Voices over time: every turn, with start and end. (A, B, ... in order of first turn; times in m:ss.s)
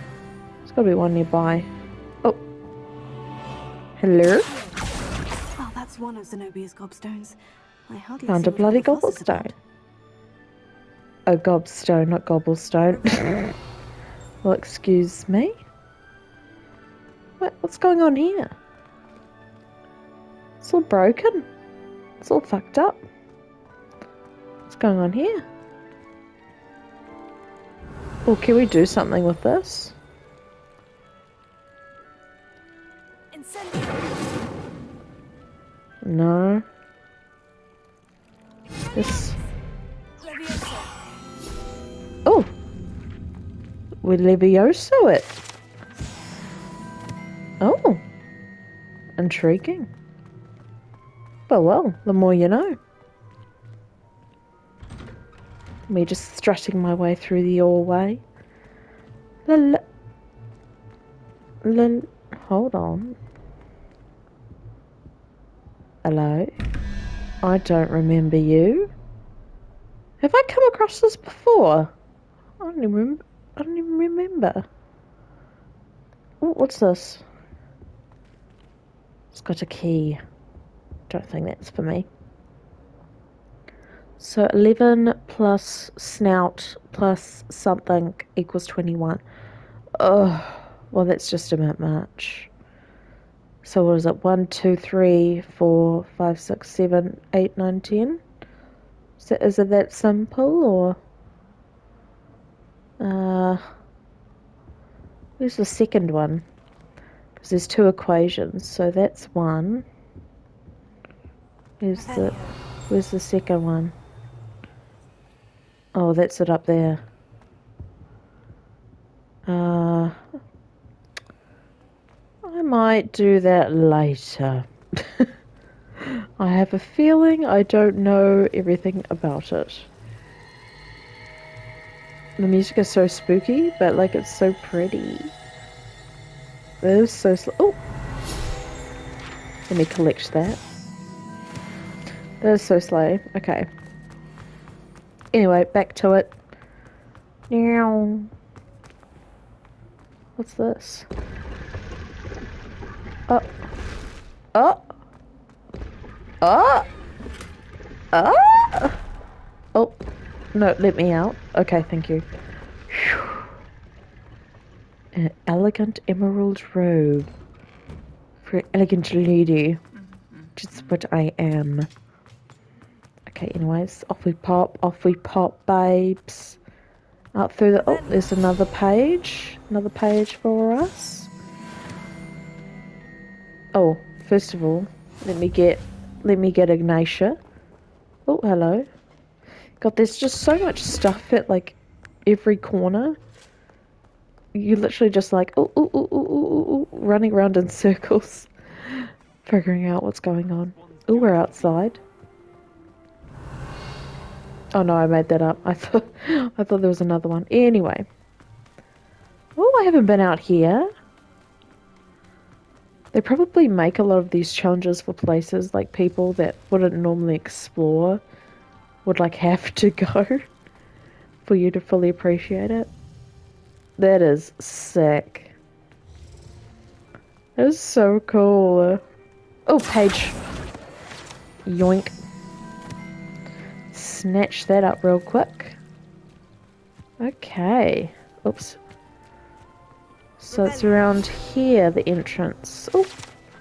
0:00.7-0:01.7 A
0:04.0-0:04.5 A
0:04.4-0:04.9 B
0:05.6-0:09.6 B
0:08.3-0:09.5 A
0:11.3-0:13.6 A
0:12.9-0:13.4 B
0:14.4-0:15.6 A
0:17.4-0:18.5 A
0:20.6-0:21.5 A
0:22.2-0:23.0 A
0:24.7-0:25.4 A
0:28.3-0:30.0 A
0:33.3-0:34.2 B
0:36.0-0:36.6 A
0:39.0-0:39.4 A
0:40.2-0:41.0 B
0:44.0-0:45.3 A
0:47.6-0:48.0 A
0:49.2-0:49.9 A
0:51.5-0:52.8 A
0:55.9-0:58.2 A
0:59.5-0:59.8 A
1:01.6-1:03.2 A
1:06.0-1:06.5 A
1:07.4-1:08.9 A
1:10.2-1:11.9 A
1:12.6-1:14.7 A
1:16.4-1:17.2 A
1:19.3-1:20.2 A
1:21.1-1:22.1 A
1:24.2-1:29.2 A
1:30.0-1:32.5 A
1:33.6-1:38.2 A
1:39.2-1:41.0 A
1:43.0-1:43.6 A
1:45.4-1:46.4 A
1:47.4-1:49.9 A
1:51.8-1:52.4 A
1:51.9-1:52.6 B
1:52.9-1:54.0 A
1:56.0-1:57.0 A
1:59.5-2:00.2 A
2:02.4-2:05.3 A
2:06.0-2:09.9 A
2:12.4-2:15.3 A
2:16.8-2:17.8 A
2:19.7-2:20.6 A
2:22.4-2:23.7 A
2:25.3-2:26.3 A
2:27.5-2:28.3 A
2:30.4-2:31.1 A
2:34.5-2:34.9 A
2:36.4-2:36.9 A
2:38.1-2:39.0 A
2:40.5-2:42.3 A
2:42.9-2:43.5 A
2:45.1-2:47.3 A
2:48.4-2:49.8 A
2:50.6-2:51.9 A
2:53.3-2:56.6 A
2:57.4-3:01.3 A
2:57.8-2:58.4 B
3:03.8-3:07.4 A
3:08.3-3:08.9 A
3:09.8-3:13.2 A
3:14.5-3:22.0 A
3:24.7-3:28.1 A
3:29.6-3:30.9 A
3:33.1-3:38.2 A
3:39.0-3:40.5 A
3:41.4-3:42.9 A
3:44.0-3:45.5 A
3:47.6-3:49.0 A
3:49.7-3:50.4 A
3:51.7-3:52.2 A
3:53.9-3:55.8 A
3:57.2-3:58.8 A
4:00.4-4:03.1 A
4:00.5-4:01.1 B